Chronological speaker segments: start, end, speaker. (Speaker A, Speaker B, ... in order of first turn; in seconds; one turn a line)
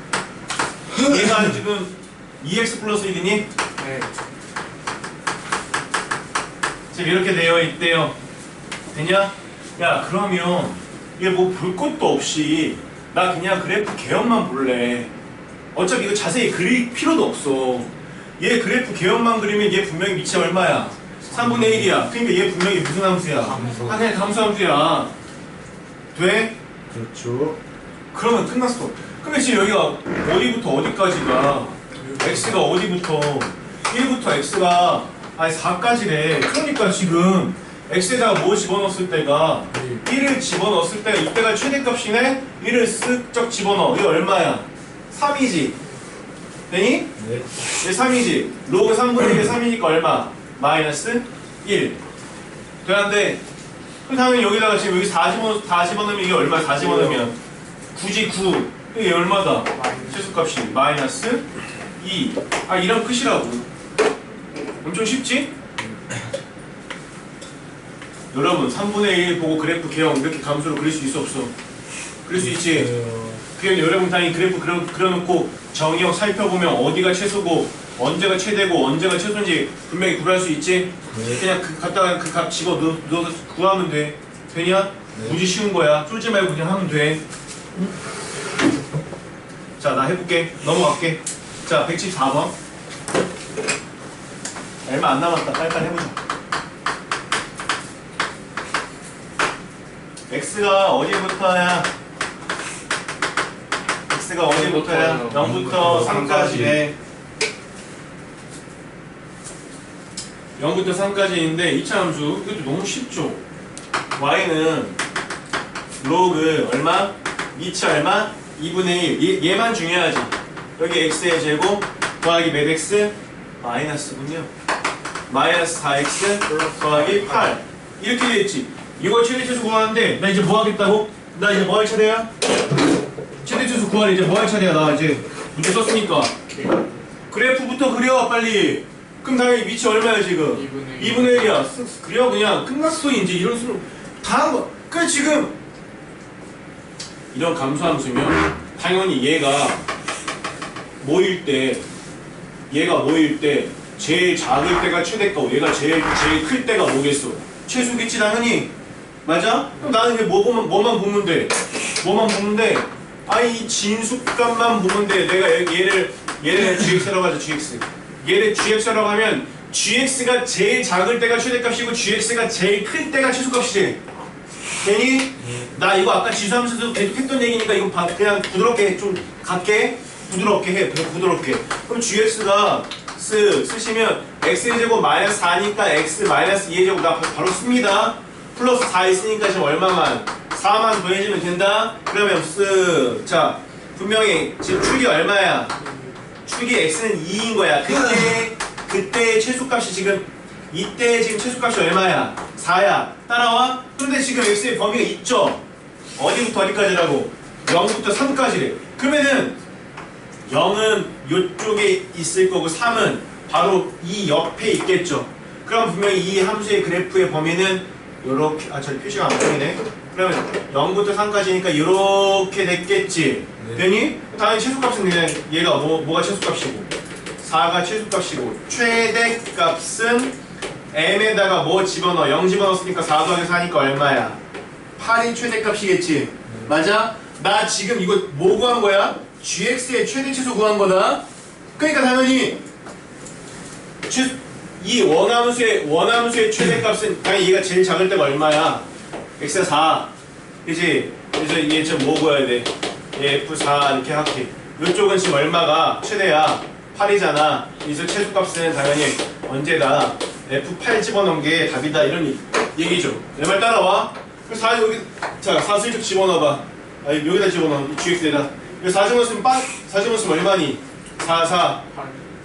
Speaker A: 1.0-3.5
Speaker B: 3.8-4.1
Speaker A: 6.9-8.1
Speaker A: 8.9-15.1
Speaker A: 15.7-25.1
Speaker C: 21.4-21.7
Speaker C: 23.4-24.0
Speaker B: 23.5-24.0
Speaker A: 26.1-26.6
Speaker C: 26.9-27.6
Speaker A: 28.1-45.8
Speaker C: 39.7-40.0
Speaker A: 46.7-47.1
Speaker C: 47.2-47.5
Speaker A: 47.8-52.0
Speaker A: 52.8-53.4
Speaker A: 54.0-57.4
Speaker A: 57.9-61.5
Speaker B: 59.7-60.4
Speaker A: 62.0-63.7
Speaker A: 64.8-65.5
Speaker C: 65.8-66.2
Speaker A: 68.3-71.5
Speaker A: 72.2-72.9
Speaker C: 72.3-73.4
Speaker A: 73.5-87.2
Speaker C: 81.1-81.4
Speaker C: 85.1-85.4
Speaker A: 89.8-92.5
Speaker A: 94.8-96.2
Speaker A: 100.3-101.9
Speaker A: 104.1-106.9
Speaker B: 104.5-106.3
Speaker C: 105.3-106.9
Speaker A: 110.6-113.4
Speaker A: 114.2-115.0
Speaker A: 116.0-124.5
Speaker A: 125.3-132.3
Speaker B: 126.5-127.6
Speaker A: 133.4-136.3
Speaker B: 136.5-137.1
Speaker A: 137.3-145.5
Speaker B: 140.5-141.6
Speaker A: 147.3-149.8
Speaker A: 151.0-151.8
Speaker A: 152.7-158.7
Speaker A: 159.2-174.0
Speaker A: 174.8-195.7
Speaker B: 195.8-196.2
Speaker A: 196.4-205.6
Speaker A: 206.2-209.6
Speaker A: 210.5-230.3
Speaker C: 223.6-223.9
Speaker A: 230.9-234.4
Speaker A: 235.0-241.2
Speaker A: 241.8-242.6
Speaker A: 244.1-248.8
Speaker A: 249.4-250.1
Speaker A: 250.6-271.9
Speaker B: 271.9-272.2